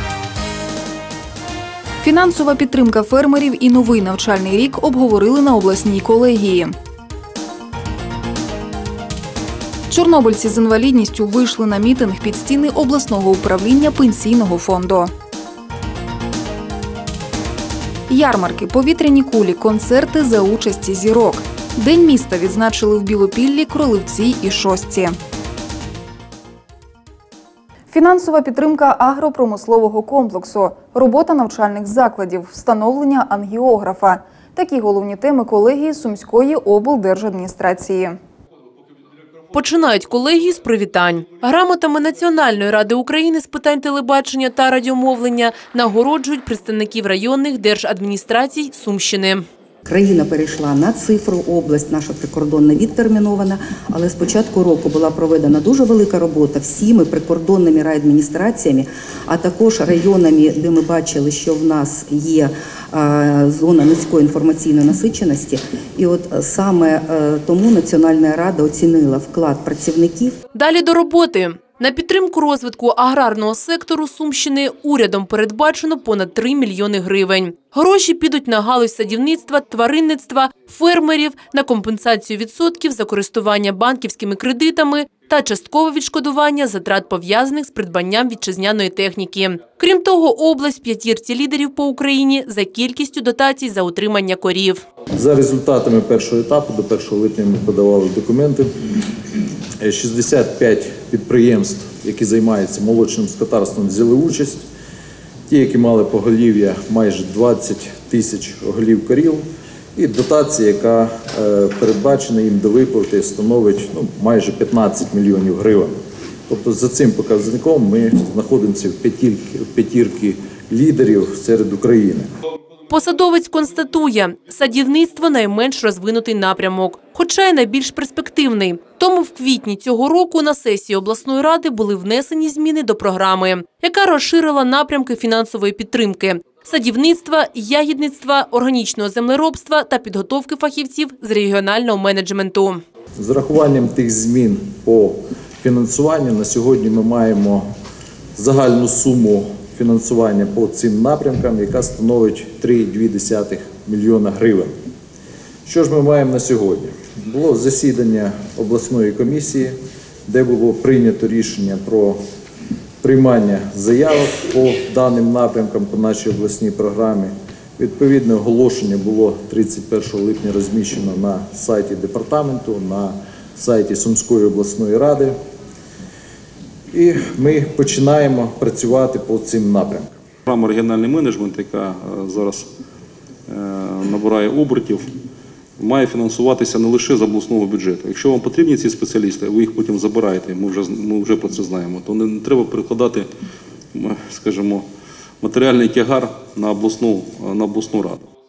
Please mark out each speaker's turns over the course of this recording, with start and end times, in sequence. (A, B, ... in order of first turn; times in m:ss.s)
0:02.0-0:06.7 A
0:09.9-0:15.1 A
0:18.1-0:25.2 A
0:27.9-0:38.2 A
0:39.5-0:49.4 B
0:49.8-1:10.4 C
1:10.5-1:34.8 B
1:35.1-1:38.8 D
1:39.8-1:44.7 D
1:45.5-2:02.3 D
2:02.9-2:22.8 B
2:23.2-2:27.7 D
2:28.4-2:34.8 D
2:35.6-2:42.2 D
2:43.0-2:55.4 D
2:56.9-3:00.1 D
3:00.5-3:02.7 E
3:03.5-3:05.1 E
3:05.8-3:13.3 E
3:13.9-3:14.8 E
3:15.4-3:18.3 E